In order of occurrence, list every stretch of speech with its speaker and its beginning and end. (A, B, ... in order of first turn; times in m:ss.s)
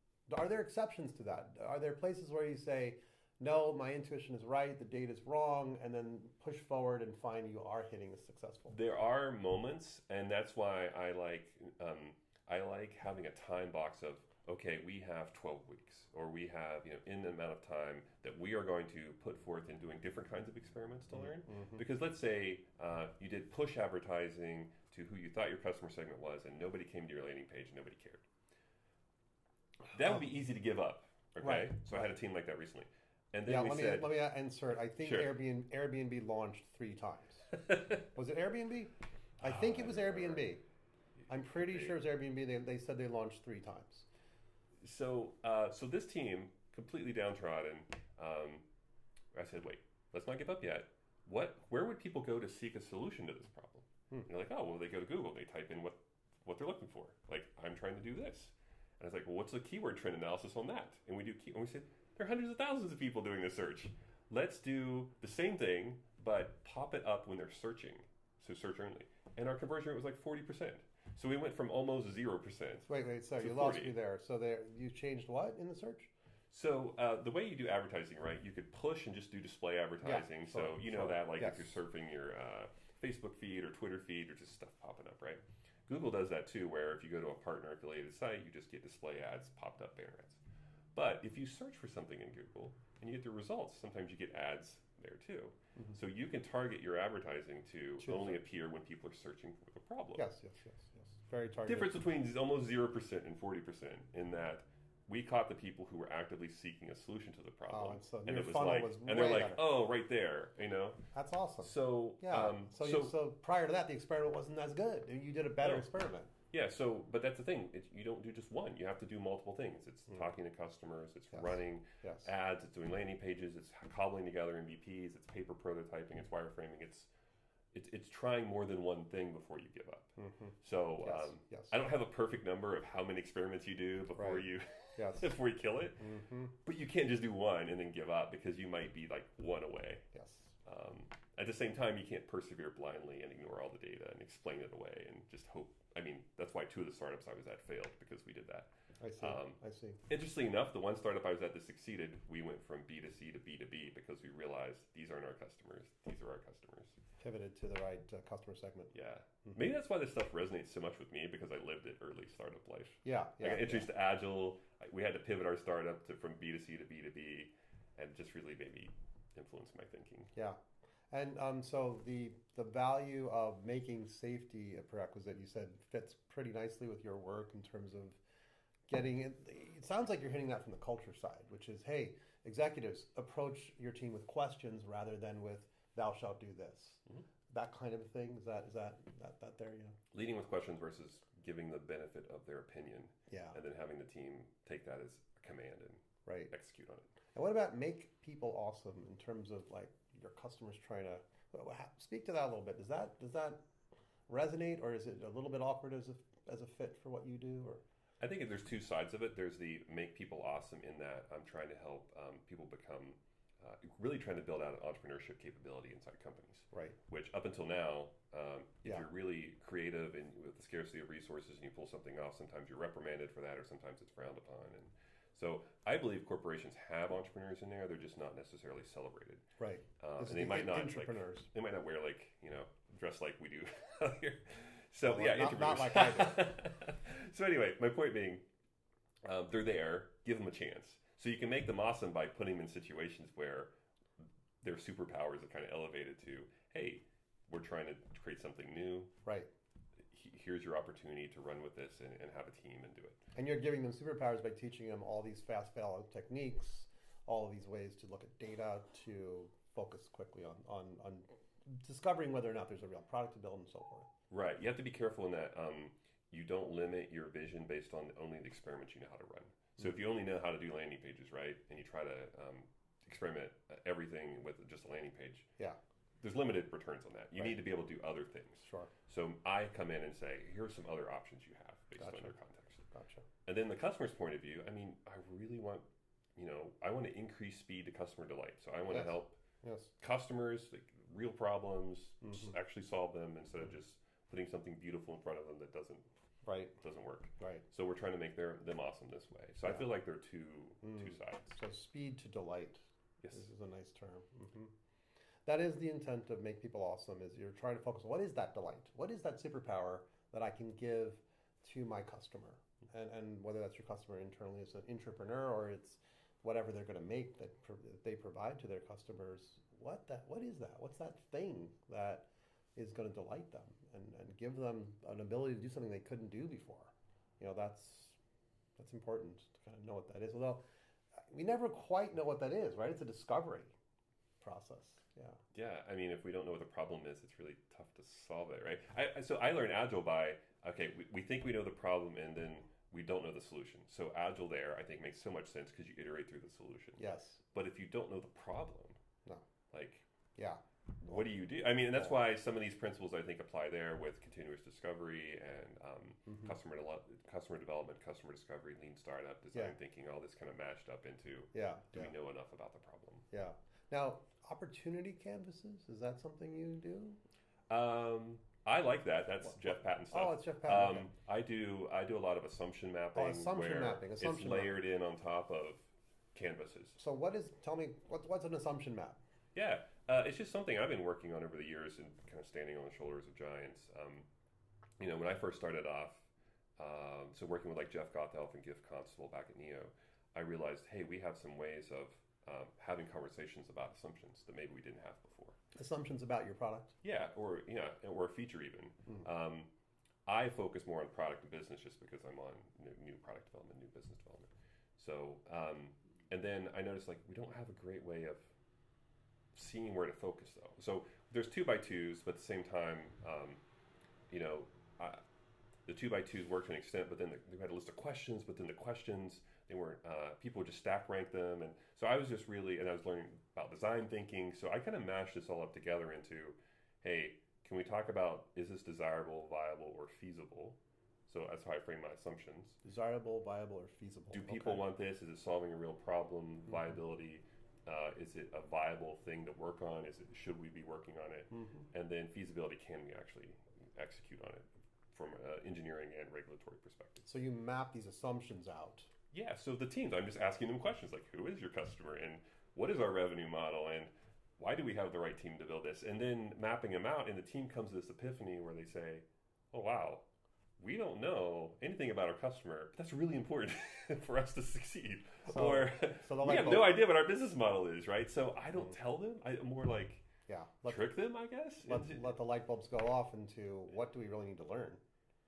0:00.3-0:08.8 A
0:08.7-0:28.2 B
0:21.1-0:21.8 A
0:29.9-0:34.4 B
0:31.4-0:32.1 A
0:33.5-0:40.6 A
0:35.0-0:35.4 B
0:39.4-0:40.5 B
0:41.3-0:44.1 A
0:41.5-0:42.0 B
0:44.8-0:48.6 B
0:49.3-1:14.0 B
1:12.8-1:16.1 A
1:16.5-1:30.4 B
1:20.0-1:21.7 A
1:31.0-1:40.2 B
1:38.0-1:38.4 A
1:40.2-1:42.0 A
1:41.7-1:51.0 B
1:47.7-1:49.6 A
1:51.1-1:56.3 A
1:51.6-1:53.2 B
1:56.5-2:07.1 B
2:01.3-2:02.3 A
2:07.7-2:10.1 B
2:10.2-2:11.7 A
2:10.6-2:16.1 B
2:14.2-2:15.4 A
2:16.0-2:16.5 A
2:16.6-2:20.0 B
2:20.1-2:20.5 A
2:20.6-2:37.0 B
2:29.0-2:30.0 A
2:37.2-2:38.9 A
2:38.9-2:50.3 B
2:43.0-2:43.9 A
2:51.1-2:58.2 A
2:58.9-3:10.0 A
3:10.1-3:17.1 B
3:13.3-3:13.6 A
3:16.2-3:16.5 A
3:17.4-3:23.6 A
3:24.3-3:27.8 A
3:28.2-3:49.4 B
3:36.7-3:37.0 A
3:49.6-3:51.5 A
3:50.0-3:58.4 B
3:55.0-3:56.5 A
3:59.2-4:03.7 B
4:04.6-4:09.1 B
4:10.1-4:13.2 B
4:13.4-4:24.1 A
4:24.3-4:35.5 B
4:36.2-4:42.8 B
4:38.6-4:38.9 A
4:42.0-4:42.3 A
4:42.9-4:43.2 A
4:43.5-4:49.4 B
4:48.9-4:49.9 A
4:50.0-4:56.1 B
4:52.2-4:52.5 A
4:56.4-4:56.8 A
4:56.8-5:01.6 B
4:57.4-4:57.6 A
5:00.8-5:04.7 A
5:05.4-5:28.2 A
5:28.8-5:30.6 A
5:31.3-5:33.8 A
5:34.4-5:35.4 A
5:35.5-5:47.0 B
5:47.0-5:47.4 A
5:47.5-5:49.0 B
5:49.7-5:50.0 B
5:50.4-5:51.3 A
5:51.1-6:03.2 B
6:01.5-6:02.1 A
6:03.3-6:07.2 A
6:07.7-6:17.0 B
6:10.1-6:11.1 A
6:13.2-6:14.8 A
6:17.0-6:19.2 A
6:19.6-6:24.2 B
6:25.0-6:26.2 B
6:26.8-6:35.6 B
6:35.8-6:37.0 A
6:37.0-6:39.7 B
6:40.3-6:48.5 B
6:49.5-6:53.6 B
6:54.3-6:55.2 B
6:55.9-7:12.8 B
7:12.8-7:14.9 A
7:14.3-7:27.3 B
7:21.5-7:21.9 A
7:27.2-7:29.1 A
7:29.3-7:40.2 B
7:40.8-7:50.2 B
7:45.5-7:47.0 A
7:50.5-7:51.1 A
7:50.9-7:52.4 B
7:51.8-7:55.0 A